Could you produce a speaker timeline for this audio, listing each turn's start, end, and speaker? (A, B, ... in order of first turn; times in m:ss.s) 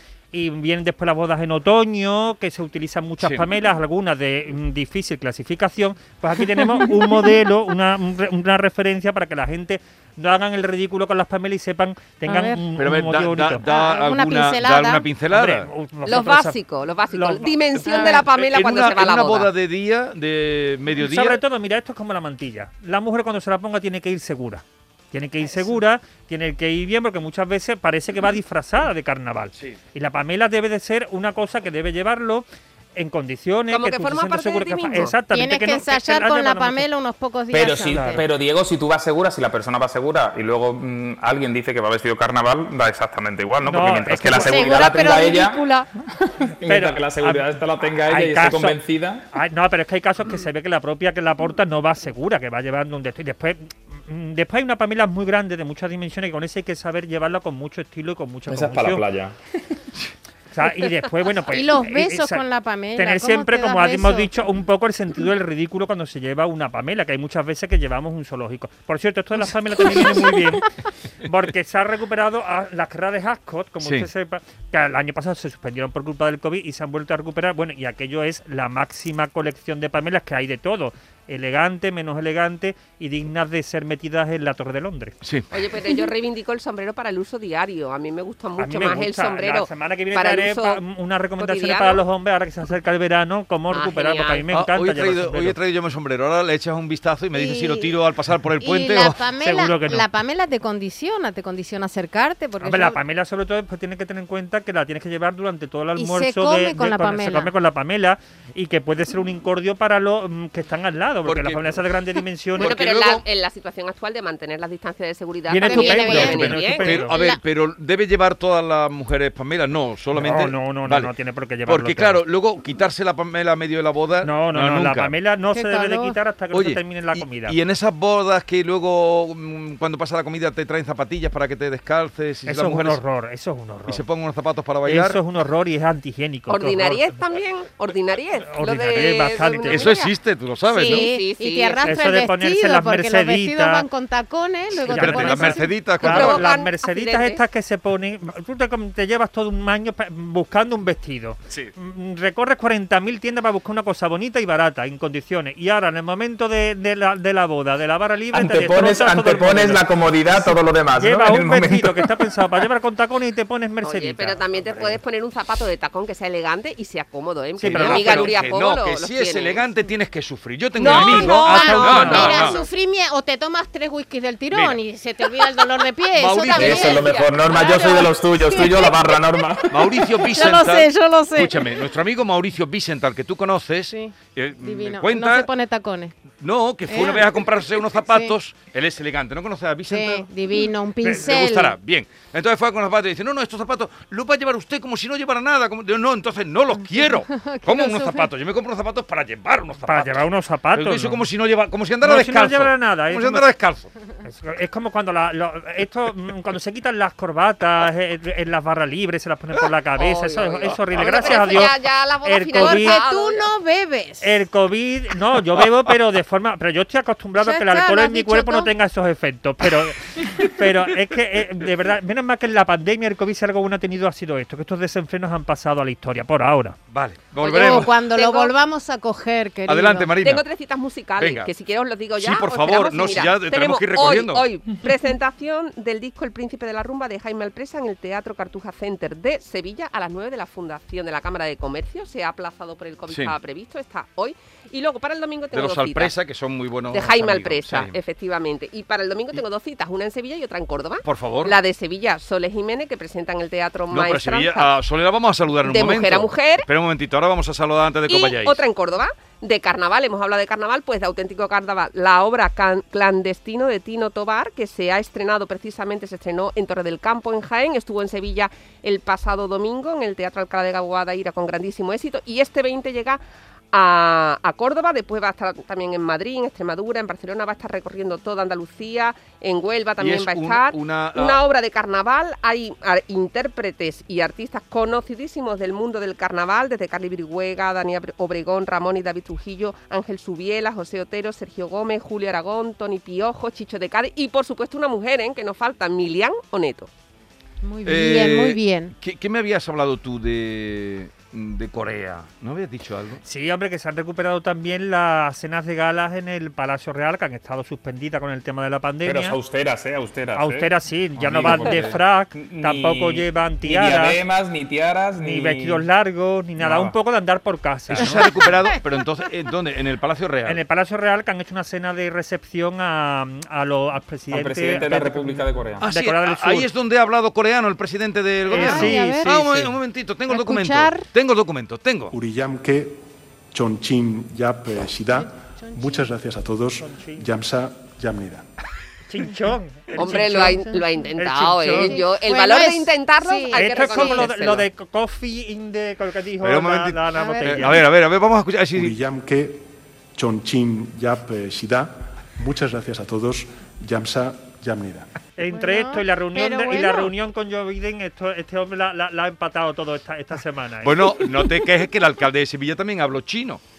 0:00.3-0:13.6 A
0:03.2-0:03.4 B
0:12.3-0:12.7 C
0:12.8-0:15.7 B
0:13.6-0:15.1 C
0:15.3-0:16.6 A
0:16.1-0:19.5 D
0:17.1-0:18.1 A
0:17.9-0:18.2 C
0:18.0-0:21.4 B
0:21.0-0:32.4 A
0:25.4-0:25.8 C
0:33.0-0:36.9 A
0:33.7-0:35.2 D
0:35.3-0:38.2 C
0:37.5-0:49.3 E
0:37.9-0:38.2 A
0:43.6-0:45.0 A
0:44.3-0:45.9 C
0:46.6-0:48.8 A
0:49.3-0:59.0 A
0:58.5-0:59.4 E
1:00.5-1:02.4 A
1:01.5-1:04.3 C
1:03.0-1:10.7 A
1:11.2-1:25.2 A
1:13.8-1:14.1 B
1:25.2-1:25.5 B
1:25.5-1:30.8 D
1:28.6-1:35.6 A
1:31.4-1:32.0 D
1:33.7-1:34.4 D
1:34.5-1:39.2 B
1:37.3-1:38.0 C
1:38.6-1:43.0 C
1:39.4-1:40.1 A
1:42.6-1:52.8 A
1:46.0-1:47.5 C
1:51.3-1:51.8 B
1:52.6-1:53.2 B
1:52.6-1:57.0 D
1:55.5-1:57.2 A
1:55.6-1:57.4 C
1:56.1-2:01.1 B
2:00.1-2:02.2 A
2:01.7-2:05.2 B
2:04.2-2:07.6 A
2:05.5-2:06.2 C
2:06.5-2:13.0 B
2:12.5-2:14.0 A
2:13.9-2:15.2 B
2:14.8-2:17.1 A
2:16.5-2:20.1 D
2:18.5-2:19.9 A
2:19.6-2:21.1 B
2:20.7-2:25.7 C
2:20.8-2:22.0 D
2:21.8-2:23.8 A
2:24.9-2:44.4 A
2:24.9-2:26.5 B
2:26.0-2:27.4 D
2:38.3-2:42.2 E
2:43.8-2:49.6 D
2:47.6-2:48.4 A
2:47.6-2:52.6 B
2:50.8-2:52.7 D
2:50.8-2:59.1 C
2:50.9-2:52.5 A
2:54.5-2:54.8 B
2:56.1-2:57.0 B
2:56.5-2:57.3 D
2:56.5-3:00.2 E
2:59.7-3:05.5 B
3:00.2-3:01.9 C
3:03.9-3:06.2 C
3:06.4-3:23.9 B
3:06.9-3:07.4 C
3:08.1-3:08.3 C
3:09.9-3:11.8 C
3:17.0-3:18.3 C
3:19.9-3:21.3 A
3:22.0-3:23.5 A
3:24.2-3:33.0 A
3:30.0-3:33.5 D
3:31.0-3:31.7 C
3:32.6-3:34.4 C
3:34.2-3:46.8 A
3:37.4-3:38.7 C
3:46.9-3:48.0 B
3:47.4-3:48.5 D
3:47.4-3:50.1 C
3:49.7-3:50.4 B
3:50.2-4:06.1 D
3:51.2-3:51.5 B
3:52.2-3:54.5 B
4:03.1-4:03.4 B
4:05.5-4:08.0 B
4:06.9-4:14.7 D
4:11.0-4:11.6 B
4:13.9-4:18.6 B
4:15.6-4:16.7 D
4:18.1-4:33.2 D
4:33.7-4:56.9 D
4:40.0-4:41.4 B
4:57.6-4:58.9 C
4:57.8-5:03.2 B
5:03.3-5:09.4 A
5:09.0-5:15.9 E
5:10.4-5:14.2 A
5:11.3-5:12.0 B
5:15.2-5:18.3 A
5:16.6-5:16.9 E
5:17.9-5:20.6 B
5:20.4-5:26.7 A
5:24.3-5:25.9 E
5:25.8-5:32.1 B
5:28.5-5:29.8 A
5:28.5-5:29.3 C
5:30.3-5:31.1 C
5:32.1-5:38.5 F
5:35.2-5:36.1 C
5:36.8-5:37.3 A
5:39.1-5:41.9 A
5:40.0-5:44.7 D
5:40.0-5:41.0 C
5:41.7-5:44.3 C
5:43.5-5:47.9 A
5:46.4-5:48.9 B
5:47.2-5:47.7 C
5:48.7-5:55.1 F
5:55.4-6:01.2 A
5:55.4-5:57.1 C
6:00.8-6:03.6 B